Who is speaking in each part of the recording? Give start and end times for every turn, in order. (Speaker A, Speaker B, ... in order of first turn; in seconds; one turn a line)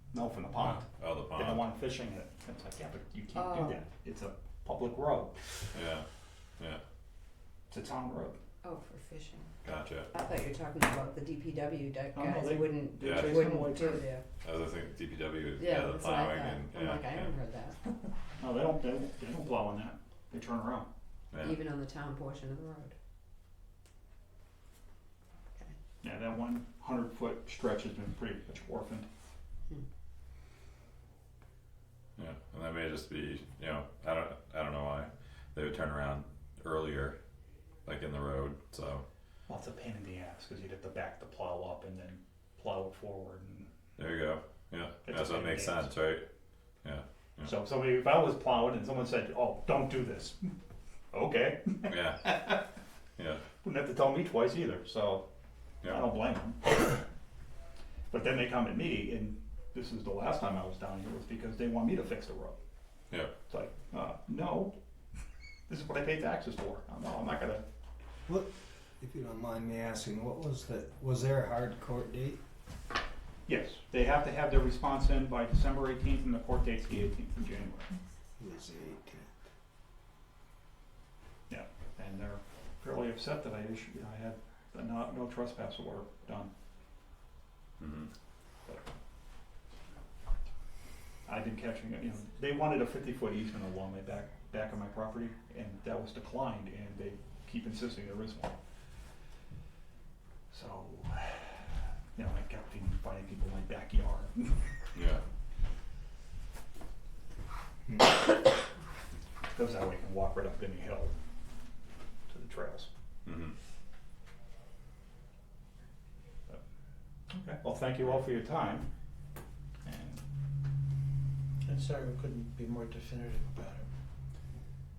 Speaker A: 0.1-5.4
Speaker B: 0.8-1.6
Speaker C: 3.3-3.8
Speaker B: 5.7-6.0
Speaker A: 7.7-8.4
Speaker C: 8.6-9.5
Speaker B: 9.6-10.1
Speaker C: 10.1-14.2
Speaker A: 12.1-14.0
Speaker B: 13.0-13.7
Speaker B: 14.4-17.3
Speaker C: 15.6-17.9
Speaker A: 18.4-20.9
Speaker B: 21.3-21.6
Speaker C: 21.4-22.9
Speaker A: 26.0-29.1
Speaker B: 32.2-37.2
Speaker B: 37.9-39.0
Speaker A: 39.5-43.7
Speaker B: 44.0-46.3
Speaker A: 45.1-45.9
Speaker B: 46.8-47.5
Speaker A: 47.4-50.5
Speaker A: 51.1-52.6
Speaker B: 51.9-52.4
Speaker B: 53.2-53.4
Speaker A: 53.6-55.2
Speaker A: 55.9-57.0
Speaker A: 58.1-62.6
Speaker A: 63.5-64.8
Speaker A: 65.7-67.6
Speaker D: 68.3-72.4
Speaker A: 73.5-77.9
Speaker D: 78.4-79.3
Speaker A: 81.5-86.5
Speaker B: 87.8-88.1
Speaker A: 91.3-98.6
Speaker A: 100.5-101.5
Speaker A: 102.2-104.6
Speaker B: 104.9-105.2
Speaker A: 109.5-111.2
Speaker A: 112.3-112.9
Speaker B: 113.3-113.5
Speaker A: 117.3-118.9
Speaker A: 119.8-120.2
Speaker E: 121.7-123.9